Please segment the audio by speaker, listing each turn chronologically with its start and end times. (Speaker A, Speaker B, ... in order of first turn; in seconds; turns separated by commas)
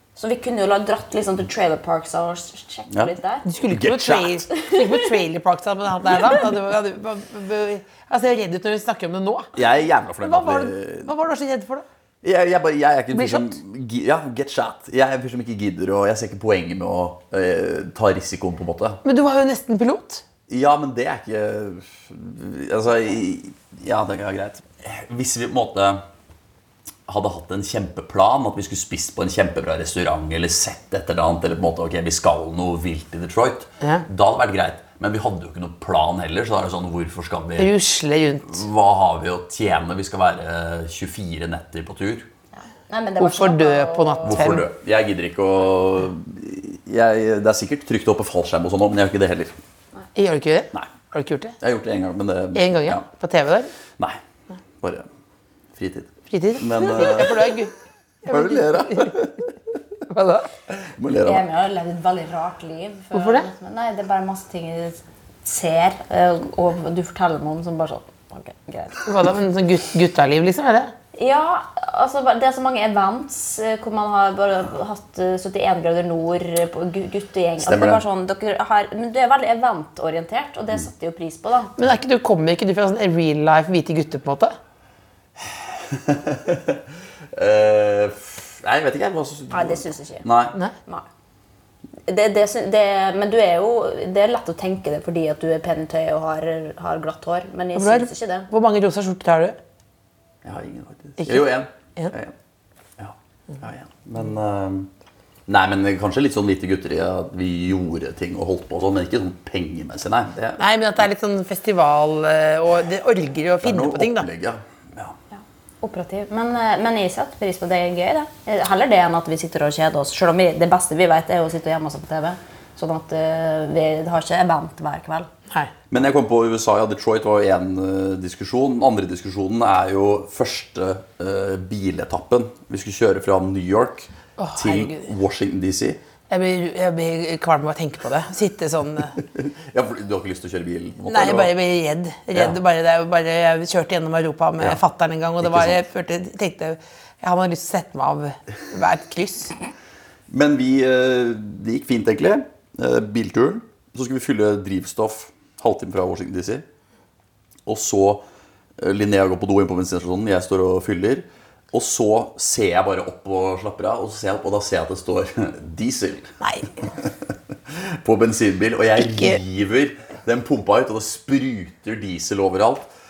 Speaker A: 0.2-3.5, Speaker B: 3.5-9.6, Speaker C: 3.7-4.4, Speaker A: 4.5-4.9, Speaker C: 9.6-11.1, Speaker B: 10.2-11.9, Speaker C: 12.2-19.0, Speaker B: 13.1-13.6, Speaker B: 19.0-20.2, Speaker C: 20.5-26.0, Speaker C: 27.1-37.7, Speaker B: 37.6-38.6, Speaker C: 38.5-42.3, Speaker A: 42.6-44.5, Speaker B: 43.2-44.7, Speaker C: 44.2-49.5, Speaker B: 50.1-51.6, Speaker C: 51.6-53.0, Speaker B: 52.5-53.7, Speaker C: 54.8-55.1, Speaker C: 55.8-57.6, Speaker B: 56.3-57.7, Speaker B: 58.2-59.2, Speaker C: 58.3-59.5, Speaker B: 60.1-60.5, Speaker C: 60.8-61.4, Speaker A: 61.2-69.0, Speaker B: 63.1-63.5, Speaker B: 69.0-70.9, Speaker A: 71.2-81.7, Speaker C: 77.6-78.0, Speaker B: 81.8-84.6, Speaker C: 85.4-90.6, Speaker A: 89.5-90.3, Speaker A: 92.1-98.5, Speaker B: 97.8-99.6, Speaker C: 100.4-102.3, Speaker B: 101.2-102.1, Speaker C: 103.0-104.9, Speaker C: 105.5-110.6, Speaker B: 110.6-114.3, Speaker C: 113.6-115.2, Speaker A: 115.3-125.3, Speaker C: 125.9-136.0, Speaker B: 134.4-135.1, Speaker B: 136.3-139.2, Speaker C: 139.3-141.5, Speaker B: 141.1-149.6, Speaker C: 145.4-145.8, Speaker C: 150.3-156.7, Speaker C: 157.7-158.2, Speaker C: 158.8-166.3, Speaker B: 166.4-166.7, Speaker C: 166.8-167.1, Speaker C: 167.7-172.9, Speaker B: 169.0-169.4